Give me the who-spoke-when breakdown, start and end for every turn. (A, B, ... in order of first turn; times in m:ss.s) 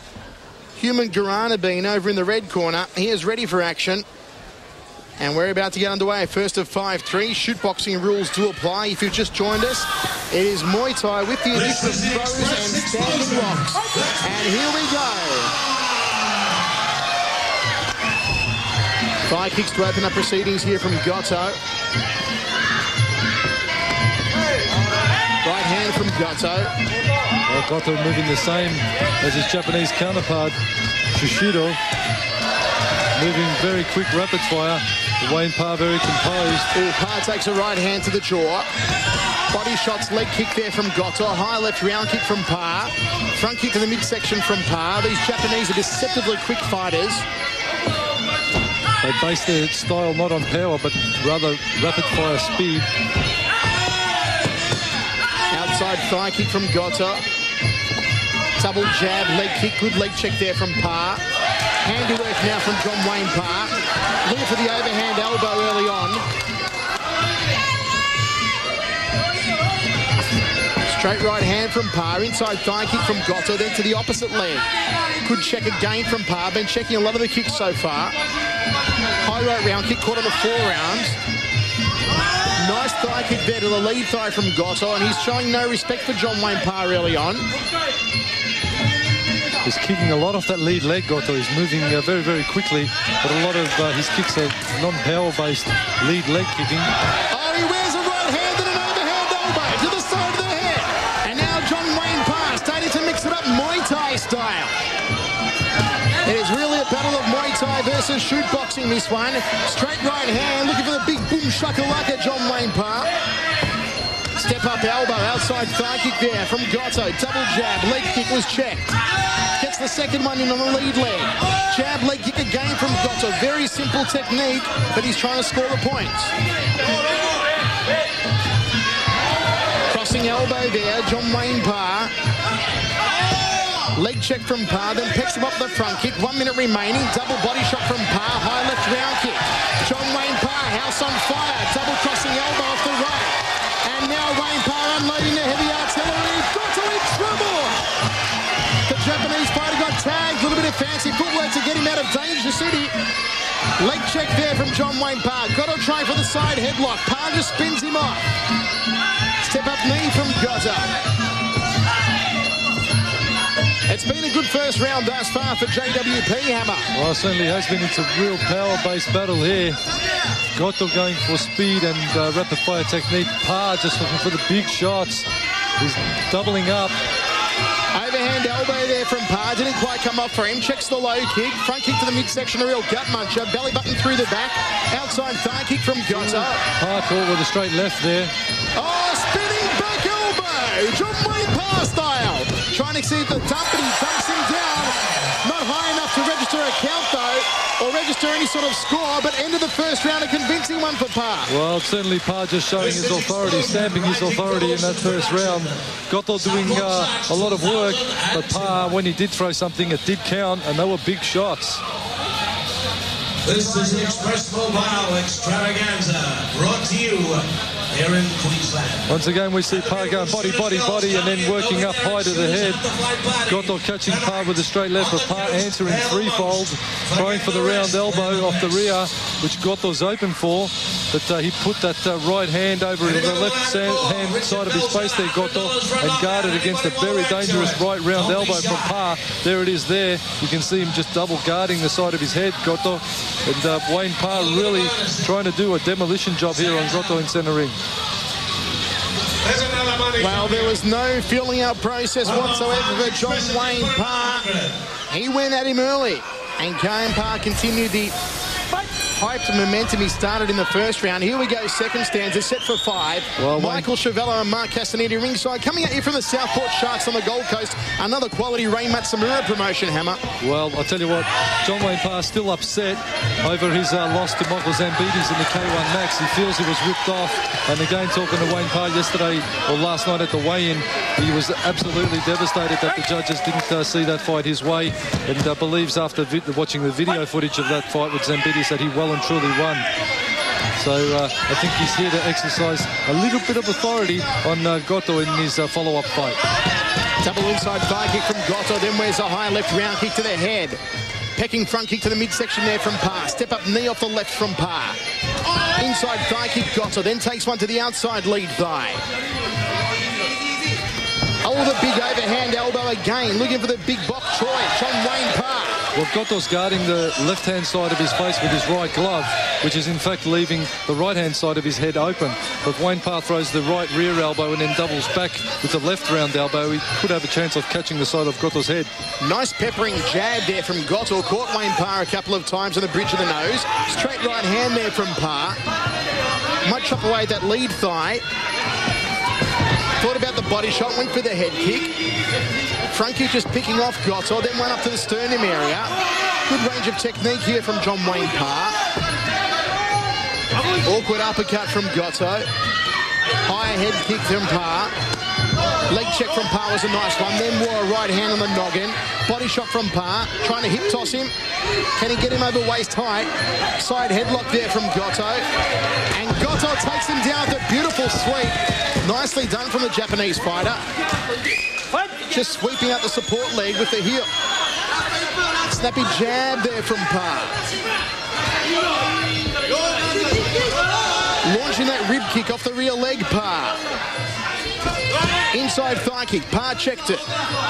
0:00.8-0:04.0 A
0:05.2-0:15.5 A
0:11.5-0:14.5 B
0:19.2-0:21.6 A
0:25.4-0:26.7 A
0:27.5-0:30.5 C
0:31.1-0:31.8 C
0:33.1-0:36.7 C
0:36.7-0:38.7 A
0:39.5-0:47.2 A
0:49.0-0:52.9 C
0:55.5-0:57.2 A
0:58.6-1:01.2 A
1:01.8-1:06.2 A
1:10.9-1:14.6 A
1:15.2-1:18.2 A
1:19.2-1:21.2 A
1:22.6-1:27.5 A
1:29.6-1:36.9 C
1:37.3-1:44.7 A
1:46.2-1:53.1 A
1:54.4-1:58.9 A
1:59.6-2:06.3 A
2:09.9-2:12.1 A
2:13.9-2:27.8 A
2:28.9-2:32.9 A
2:33.8-2:38.3 A
2:39.4-2:40.9 A
2:43.9-2:46.9 A
2:46.9-2:49.8 C
2:50.5-2:55.3 C
2:55.8-2:57.0 C
2:57.9-3:06.6 A
3:06.1-3:08.3 C
3:08.8-3:21.5 A
3:21.5-3:31.8 C
3:22.8-3:25.8 B
3:26.4-3:28.8 B
3:33.4-3:48.9 B
3:39.1-3:42.8 C
3:43.4-4:07.8 C
3:53.0-3:59.0 B
4:04.3-4:05.3 B
4:06.5-4:07.2 B
4:09.4-4:10.8 B
4:10.2-4:14.5 A
4:12.2-4:14.7 B
4:15.1-4:18.2 A
4:18.9-4:30.2 A
4:23.4-4:23.9 C
4:30.4-4:49.8 C
4:50.8-4:56.4 C
4:57.2-5:00.8 A
5:01.3-5:05.0 A
5:05.8-5:09.0 A
5:11.4-5:15.8 A
5:15.9-5:28.9 C
5:29.2-5:35.6 A
5:36.6-5:38.2 A
5:40.0-5:41.9 A
5:42.9-5:45.9 A
5:46.4-5:48.8 A
5:50.8-5:52.5 A
5:53.4-5:54.9 A
5:55.9-6:01.3 A
6:02.0-6:05.5 A
6:06.1-6:10.8 A
6:12.3-6:14.3 A
6:15.6-6:17.6 A
6:21.4-6:23.8 A
6:25.5-6:27.3 A